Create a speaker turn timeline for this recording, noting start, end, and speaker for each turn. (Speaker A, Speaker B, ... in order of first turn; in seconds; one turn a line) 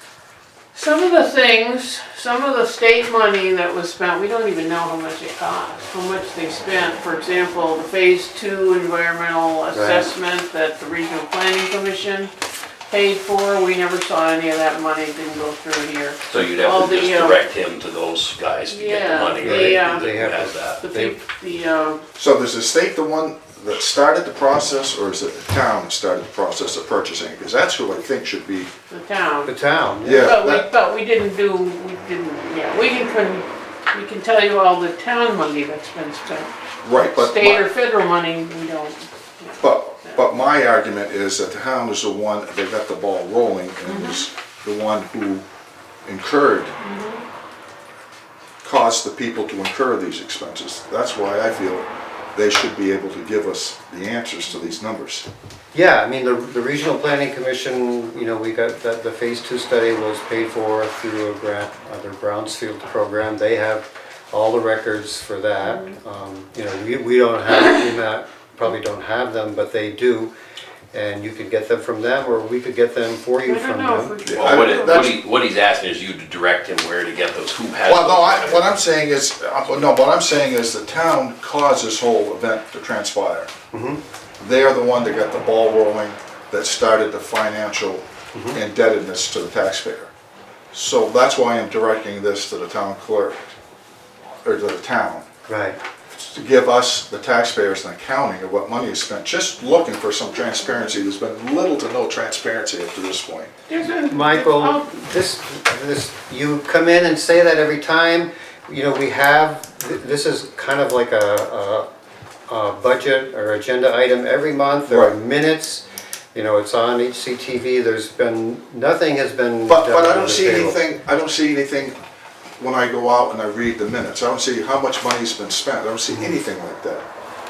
Speaker A: 0.7-12.3
Speaker B: 9.7-10.1
Speaker A: 12.9-17.4
Speaker C: 16.3-20.8
Speaker A: 18.6-22.0
Speaker B: 19.4-21.1
Speaker D: 22.1-28.7
Speaker A: 28.9-29.5
Speaker B: 29.4-30.4
Speaker D: 30.0-30.7
Speaker A: 30.1-40.2
Speaker D: 36.8-37.7
Speaker D: 39.6-45.4
Speaker A: 43.9-44.2
Speaker D: 46.0-46.7
Speaker A: 46.8-47.2
Speaker D: 48.6-55.3
Speaker B: 55.7-70.3
Speaker A: 65.6-66.0
Speaker B: 70.9-74.2
Speaker A: 73.4-75.1
Speaker D: 74.2-75.2
Speaker C: 74.3-78.7
Speaker D: 77.8-83.5
Speaker B: 83.7-84.0
Speaker D: 84.4-90.1
Speaker B: 88.3-88.6
Speaker D: 90.7-93.5
Speaker D: 94.4-95.2
Speaker B: 95.5-95.8
Speaker D: 96.1-103.5
Speaker A: 103.7-105.0
Speaker B: 104.0-111.9
Speaker B: 112.5-120.8
Speaker D: 114.9-115.1
Speaker D: 119.7-122.0
Speaker D: 122.6-127.0